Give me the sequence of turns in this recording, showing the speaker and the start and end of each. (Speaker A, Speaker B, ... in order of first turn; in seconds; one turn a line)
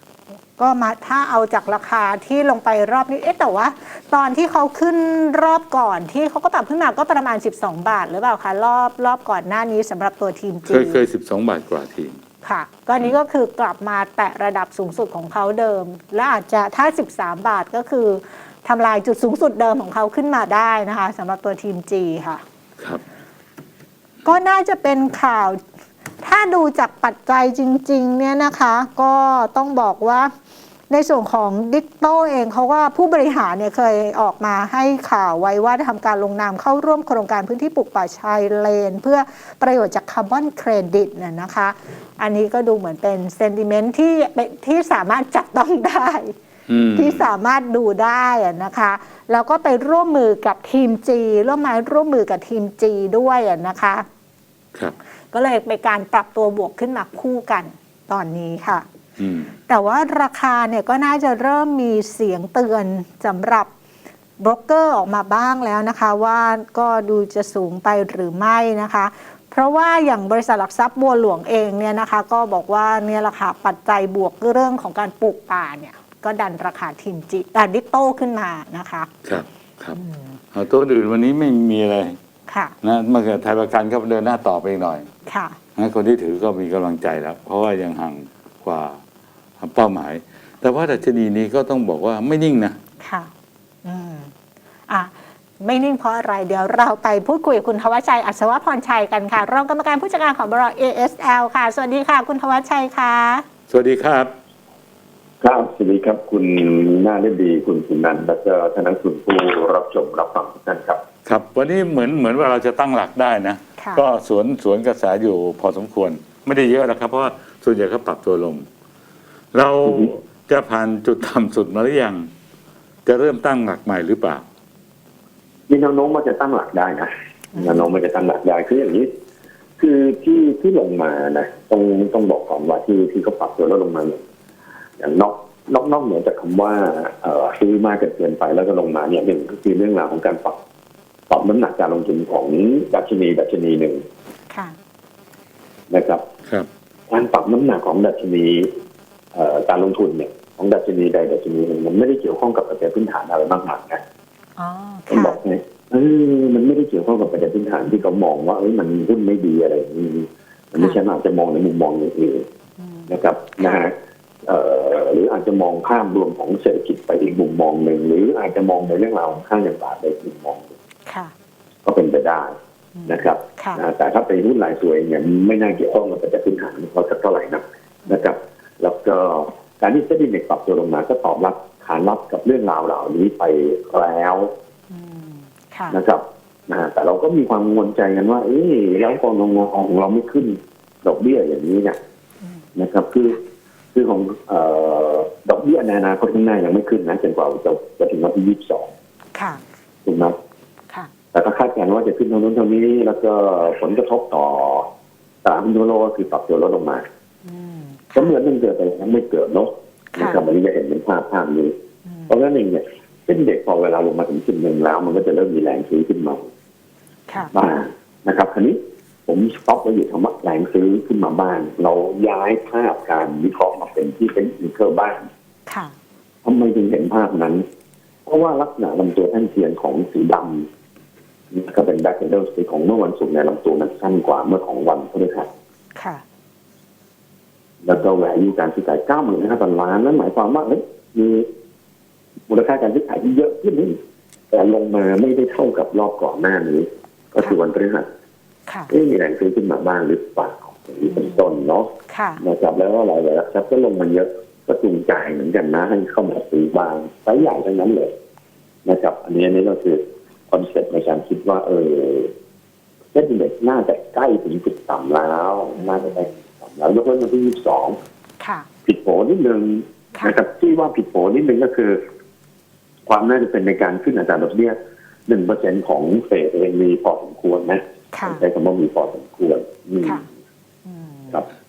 Speaker A: 0.5-11.0
Speaker B: 10.7-12.2
Speaker A: 12.4-22.4
Speaker A: 24.2-25.6
Speaker A: 26.2-30.3
Speaker A: 30.9-46.4
Speaker B: 46.7-47.3
Speaker A: 47.0-54.0
Speaker A: 55.3-58.8
Speaker B: 59.2-59.5
Speaker A: 59.7-63.7
Speaker A: 64.4-79.1
Speaker B: 79.2-80.0
Speaker A: 79.9-80.4
Speaker B: 80.5-82.2
Speaker A: 82.5-82.7
Speaker B: 82.8-85.1
Speaker A: 85.3-85.6
Speaker B: 85.8-89.0
Speaker B: 89.6-92.8
Speaker A: 93.0-93.3
Speaker A: 93.8-94.3
Speaker A: 94.9-103.4
Speaker B: 103.7-104.3
Speaker C: 105.4-111.0
Speaker B: 111.2-118.7
Speaker A: 113.8-114.0
Speaker B: 119.5-122.3
Speaker C: 119.8-120.1
Speaker B: 123.0-124.4
Speaker C: 125.7-129.1
Speaker A: 127.5-127.9
Speaker C: 129.8-134.2
Speaker C: 135.0-140.6
Speaker C: 141.3-144.0
Speaker C: 145.9-146.2
Speaker C: 147.1-148.7
Speaker C: 149.3-154.0
Speaker A: 154.6-155.4
Speaker C: 155.1-162.4
Speaker A: 162.8-163.8
Speaker C: 163.1-163.9
Speaker C: 164.4-170.7
Speaker A: 171.1-171.3
Speaker C: 171.8-172.5
Speaker A: 172.9-173.8
Speaker C: 173.1-184.5
Speaker A: 184.9-186.0
Speaker C: 185.9-192.0
Speaker C: 192.7-193.4
Speaker C: 193.9-198.9
Speaker A: 199.3-199.6
Speaker C: 200.0-200.3
Speaker C: 201.3-204.8
Speaker C: 205.4-207.0
Speaker A: 207.4-208.3
Speaker C: 208.1-211.7
Speaker A: 210.1-210.4
Speaker A: 212.1-212.3
Speaker C: 212.3-216.4
Speaker C: 217.5-225.3
Speaker A: 225.7-225.9
Speaker C: 226.4-227.6
Speaker C: 228.3-230.7
Speaker C: 231.5-235.5
Speaker A: 235.9-236.2
Speaker C: 237.8-241.5
Speaker C: 242.5-244.0
Speaker C: 244.5-248.1
Speaker C: 248.9-251.9
Speaker A: 251.1-251.5
Speaker A: 252.1-252.4
Speaker C: 252.4-258.1
Speaker C: 258.8-262.3
Speaker C: 263.1-268.0
Speaker A: 265.8-266.2
Speaker A: 268.4-268.6
Speaker C: 268.9-272.0
Speaker C: 273.1-280.2
Speaker A: 278.1-278.4
Speaker A: 280.9-281.4